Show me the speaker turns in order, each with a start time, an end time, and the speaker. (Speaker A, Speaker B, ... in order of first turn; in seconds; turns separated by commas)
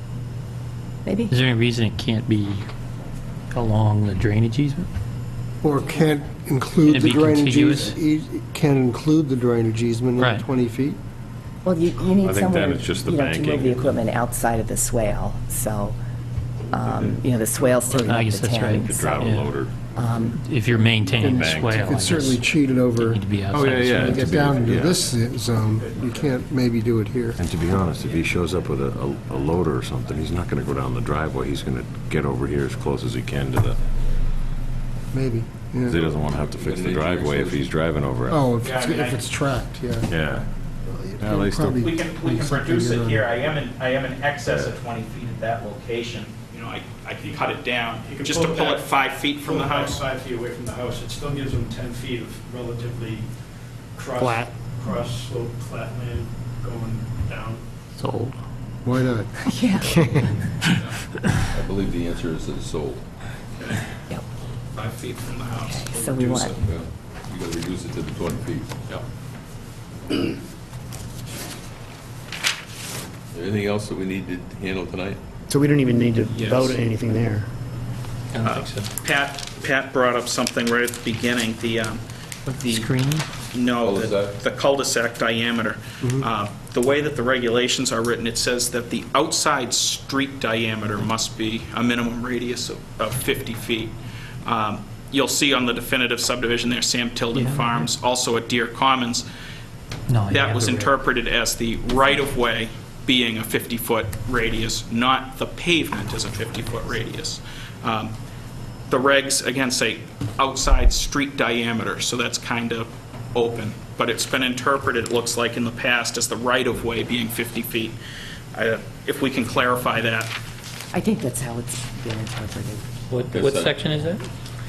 Speaker A: 1.0-1.3, Speaker B: 1.3-2.7, Speaker B: 3.5-4.9, Speaker C: 5.6-11.0, Speaker B: 6.8-8.0, Speaker B: 10.2-10.4, Speaker A: 11.6-16.0, Speaker D: 12.2-13.9, Speaker A: 16.7-19.4, Speaker B: 17.9-19.6, Speaker D: 18.8-19.8, Speaker A: 19.9-20.3, Speaker B: 20.1-24.3, Speaker C: 20.7-27.4, Speaker D: 21.3-21.9, Speaker D: 23.6-25.1, Speaker E: 24.4-26.9, Speaker D: 27.4-33.8, Speaker C: 35.1-36.1, Speaker D: 35.9-38.5, Speaker F: 36.0-37.7, Speaker C: 38.3-40.1, Speaker G: 38.6-39.3, Speaker D: 40.1-40.5, Speaker C: 40.8-43.3, Speaker D: 41.2-41.8, Speaker G: 41.8-50.0, Speaker D: 44.4-44.8, Speaker E: 47.2-53.3, Speaker E: 53.9-57.7, Speaker B: 54.2-54.5, Speaker B: 57.9-58.4, Speaker C: 58.8-59.3, Speaker A: 59.4-60.1, Speaker F: 61.5-63.1, Speaker G: 63.6-63.8, Speaker G: 64.7-66.7, Speaker A: 65.6-66.6, Speaker F: 66.6-69.0, Speaker F: 73.3-75.2, Speaker H: 75.5-77.5, Speaker G: 76.3-76.8, Speaker B: 78.3-78.9, Speaker G: 78.4-82.9, Speaker B: 82.5-83.3, Speaker G: 83.5-93.9, Speaker F: 83.8-84.4, Speaker G: 94.4-99.2, Speaker B: 97.3-97.9, Speaker B: 100.1-100.9, Speaker G: 100.3-108.1, Speaker G: 108.9-118.0, Speaker G: 118.5-120.3, Speaker A: 120.9-122.9, Speaker B: 123.1-124.3, Speaker F: 123.3-123.9